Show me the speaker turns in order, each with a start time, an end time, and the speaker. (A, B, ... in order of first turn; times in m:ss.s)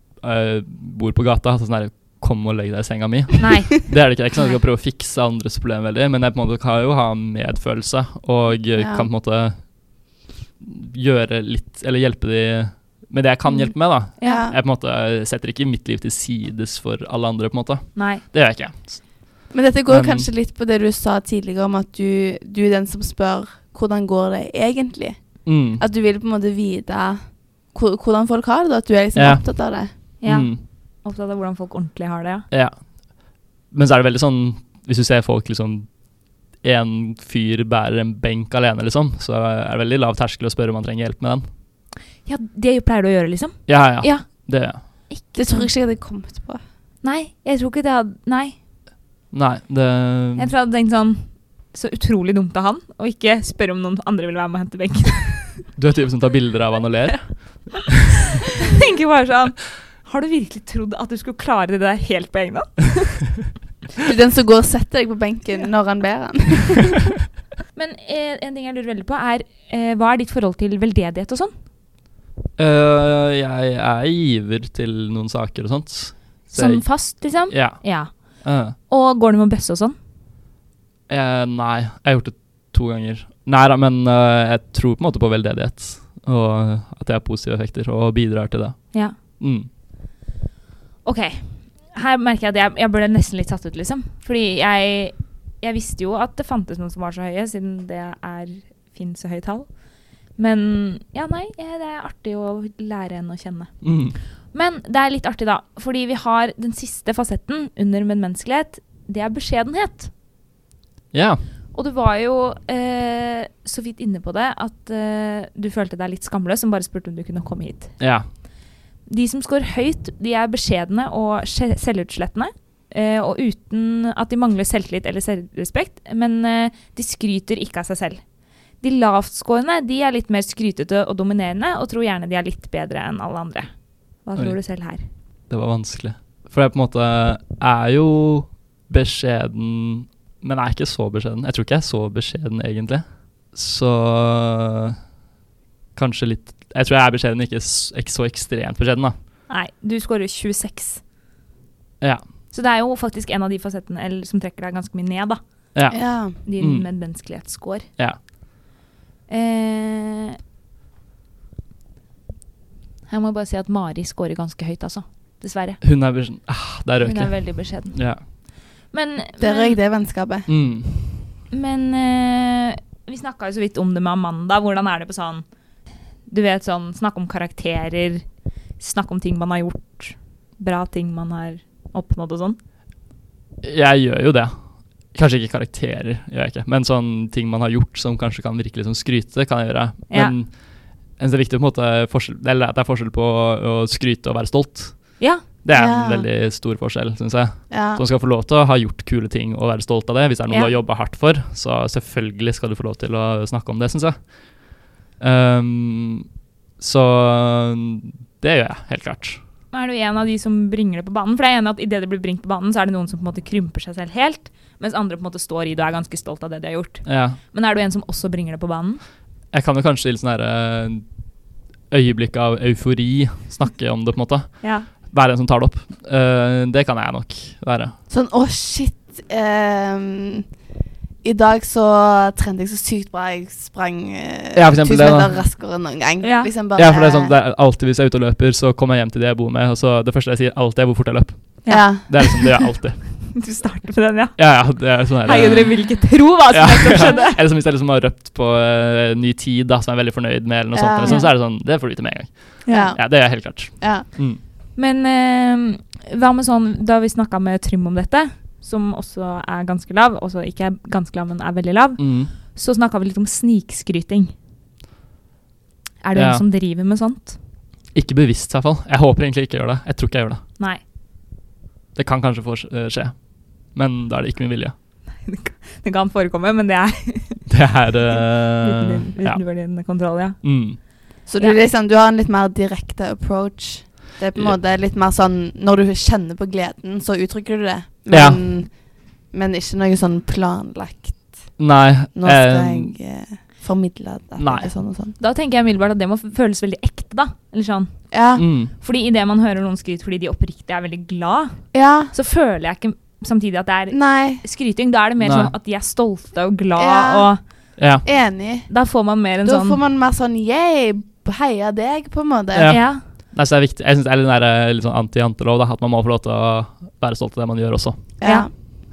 0:00.2-0:09.8 A
0:03.4-0:04.6 B
0:08.8-0:09.1 C
0:10.6-0:20.3 A
0:13.5-0:14.5 B
0:14.2-0:14.6 C
0:17.9-0:18.2 B
0:19.5-0:29.9 C
0:25.4-0:25.8 A
0:29.1-0:30.6 A
0:30.2-0:32.5 B
0:32.5-0:36.0 A
0:36.5-0:41.4 A
0:42.2-0:45.7 B
0:43.7-0:44.8 A
0:45.3-0:46.6 C
0:47.0-0:48.6 B
0:49.3-0:50.5 A
0:50.4-0:55.6 B
0:55.8-0:57.9 A
0:58.6-1:03.4 B
1:04.0-1:07.1 C
1:07.7-1:11.5 B
1:12.6-1:18.8 A
1:16.5-1:19.9 B
1:21.1-1:29.7 A
1:31.0-1:39.8 B
1:40.3-1:43.8 B
1:43.8-1:44.2 A
1:44.5-1:50.1 B
1:51.1-1:51.4 A
1:51.7-1:58.0 B
1:58.0-1:58.2 A
1:59.0-2:08.2 B
2:08.8-2:15.0 B
2:14.3-2:14.6 A
2:15.5-2:25.0 A
2:25.9-2:29.1 A
2:29.5-2:31.0 B
2:32.5-2:35.4 B
2:35.7-2:36.9 A
2:35.9-2:36.4 C
2:36.0-2:37.9 B
2:39.3-2:40.4 B
2:43.1-2:45.8 B
2:45.8-2:48.2 A
2:47.0-2:48.3 B
2:48.9-2:49.8 B
2:49.4-2:50.5 C
2:50.5-2:51.3 A
2:51.5-2:55.4 B
2:56.3-2:58.2 B
2:58.8-3:02.6 B
3:03.6-3:26.3 A
3:10.1-3:10.4 B
3:15.2-3:15.4 B
3:15.7-3:16.3 C
3:17.7-3:18.0 C
3:20.5-3:20.7 B
3:26.8-3:29.4 A
3:29.7-3:39.0 B
3:37.0-3:37.4 A
3:39.5-3:41.2 A
3:41.9-3:47.9 A
3:44.6-3:44.9 B
3:48.1-3:50.4 C
3:51.2-3:57.3 C
3:54.5-3:55.4 A
3:56.2-3:56.5 B
3:56.8-4:03.2 A
4:01.6-4:02.5 B
4:01.7-4:02.5 C
4:03.3-4:07.4 B
4:04.4-4:14.4 A
4:10.7-4:11.2 C
4:11.0-4:11.3 B
4:12.6-4:12.9 B
4:12.7-4:14.0 C
4:14.8-4:24.3 B
4:22.0-4:22.3 A
4:26.0-4:27.4 B
4:26.1-4:26.4 A
4:27.9-4:30.4 A
4:31.9-4:34.7 A
4:35.2-4:37.5 B
4:37.5-4:39.4 A
4:38.6-4:40.8 B
4:40.4-4:40.8 A
4:41.2-4:51.6 C
4:48.1-4:48.4 A
4:51.6-4:52.9 A
4:52.1-4:55.2 C
4:54.4-4:54.7 A
4:55.2-5:07.4 B
4:58.1-4:58.4 C
4:58.4-4:58.7 A
5:01.7-5:02.1 C
5:03.9-5:04.4 C
5:05.2-5:05.5 A
5:06.8-5:07.3 C
5:07.8-5:08.0 A
5:08.0-5:08.7 C
5:08.7-5:09.8 B
5:09.4-5:12.8 C
5:12.5-5:18.0 A
5:12.7-5:13.0 B
5:18.2-5:18.5 C
5:18.2-5:18.5 B